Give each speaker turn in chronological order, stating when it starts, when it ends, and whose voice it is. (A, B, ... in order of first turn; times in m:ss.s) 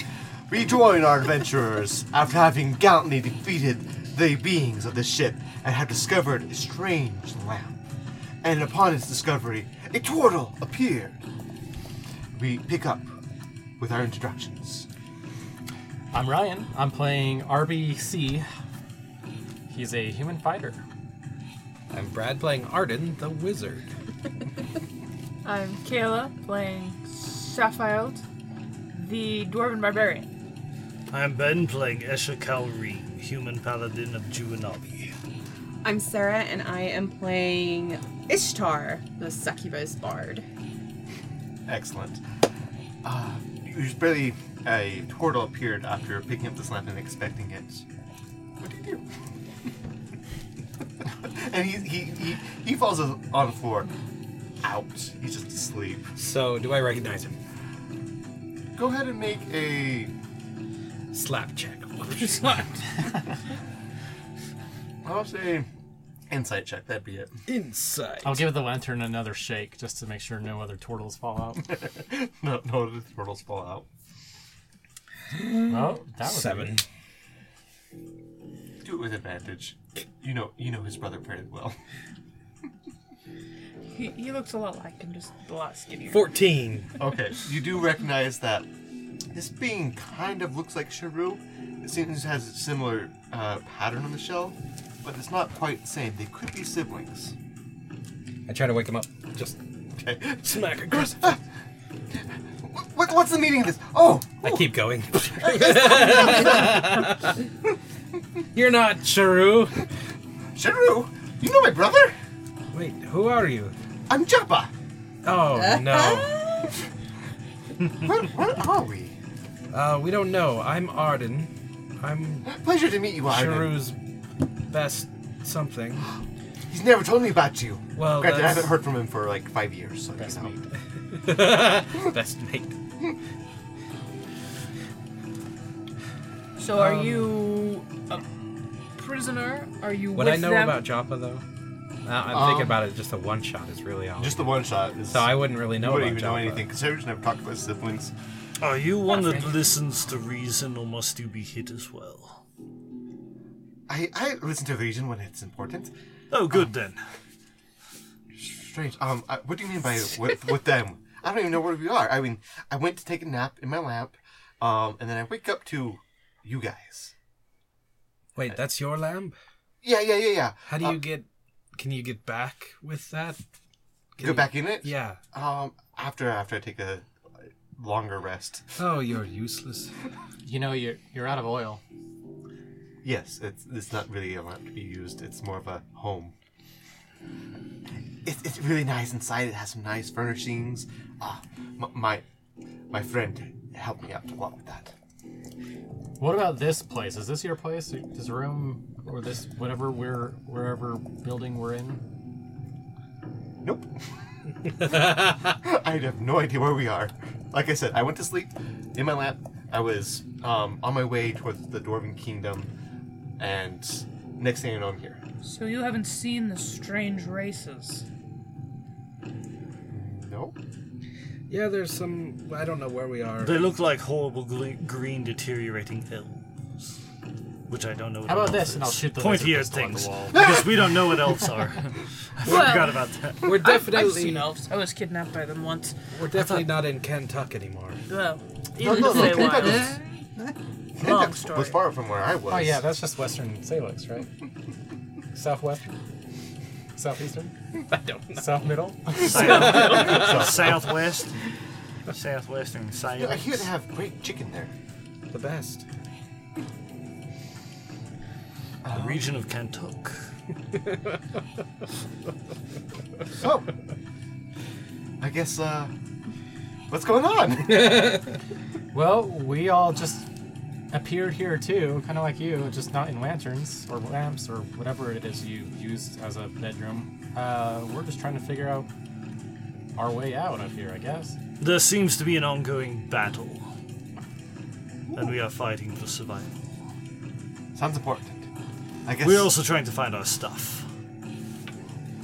0:00.5-0:07.7 A
0:08.4-0:11.3 A
0:12.3-0:13.2 A
0:13.8-0:14.9 A
0:16.1-0:18.4 B
0:19.7-0:20.8 B
0:21.9-0:23.9 C
0:25.4-0:28.2 D
0:28.9-0:30.3 D
0:31.1-0:35.1 E
0:35.8-0:40.4 F
0:41.7-0:42.2 A
0:43.0-0:47.8 A
0:48.6-0:49.0 A
0:51.2-0:53.9 A
0:54.6-0:56.1 A
0:56.2-0:57.4 C
0:58.7-1:00.1 A
1:01.1-1:03.1 C
1:05.0-1:05.7 A
1:06.3-1:07.4 A
1:07.4-1:08.5 C
1:08.2-1:11.8 B
1:11.7-1:13.9 A
1:15.7-1:16.8 B
1:16.2-1:16.8 C
1:18.8-1:21.8 A
1:23.9-1:26.2 D
1:26.1-1:26.9 C
1:27.0-1:28.7 A
1:29.3-1:37.3 A
1:38.5-1:39.6 C
1:40.0-1:41.4 A
1:40.4-1:41.4 C
1:42.1-1:44.7 A
1:44.4-1:47.3 C
1:45.4-1:46.7 A
1:48.5-1:49.8 C
1:50.5-1:52.2 A
1:52.7-1:53.7 C
1:54.1-1:54.7 A
1:55.2-1:56.6 C
1:55.9-1:56.7 F
1:57.9-1:59.2 A
1:59.7-2:02.5 C
2:02.4-2:03.9 A
2:03.2-2:04.0 C
2:04.7-2:06.0 C
2:06.7-2:10.5 A
2:08.0-2:08.8 C
2:10.2-2:10.7 B
2:11.1-2:12.8 C
2:16.6-2:18.2 D
2:16.8-2:17.4 C
2:19.0-2:20.8 D
2:20.1-2:21.4 C
2:22.0-2:26.7 C
2:22.3-2:22.8 A
2:24.2-2:28.1 A
2:28.6-2:32.4 E
2:33.9-2:35.9 A
2:36.3-2:37.0 E
2:38.3-2:47.1 A
2:48.3-2:49.4 C
2:49.8-2:51.0 A
2:50.6-2:53.4 C
2:54.2-2:55.2 C
2:54.2-2:57.1 A
2:57.8-2:58.8 A
2:58.8-2:59.9 C
3:00.4-3:01.8 B
3:03.0-3:06.3 A
3:08.2-3:12.2 A
3:12.9-3:14.9 A
3:16.2-3:22.0 B
3:23.6-3:23.9 A
3:24.8-3:32.7 A
3:33.4-3:35.2 A
3:35.4-3:38.0 D
3:39.9-3:40.6 A
3:41.5-3:43.7 C
3:43.4-3:46.4 E
3:47.7-3:53.6 E
3:48.2-3:50.4 B
3:52.4-3:56.0 D
3:53.4-3:54.6 C
3:56.1-3:58.0 C
3:58.1-4:00.0 D
3:58.8-4:00.0 A
4:01.0-4:02.8 A
4:01.0-4:01.8 D
4:02.5-4:04.3 B
4:05.3-4:06.0 B
4:07.0-4:07.5 B
4:07.9-4:08.6 C
4:08.3-4:10.0 B
4:09.2-4:11.4 E
4:09.3-4:10.4 C
4:09.9-4:10.8 A
4:12.1-4:13.6 E
4:13.2-4:14.7 A
4:15.3-4:15.8 C
4:18.8-4:19.2 A
4:18.9-4:20.3 E
4:23.3-4:23.7 A
4:25.2-4:25.9 A
4:26.9-4:28.2 A
4:28.9-4:30.3 B
4:30.9-4:38.9 B
4:39.9-4:41.4 B
4:41.6-4:43.7 E
4:45.1-4:45.3 A
4:45.1-4:46.5 E
4:47.7-4:48.5 A
4:49.0-4:49.5 A
4:49.2-4:50.9 E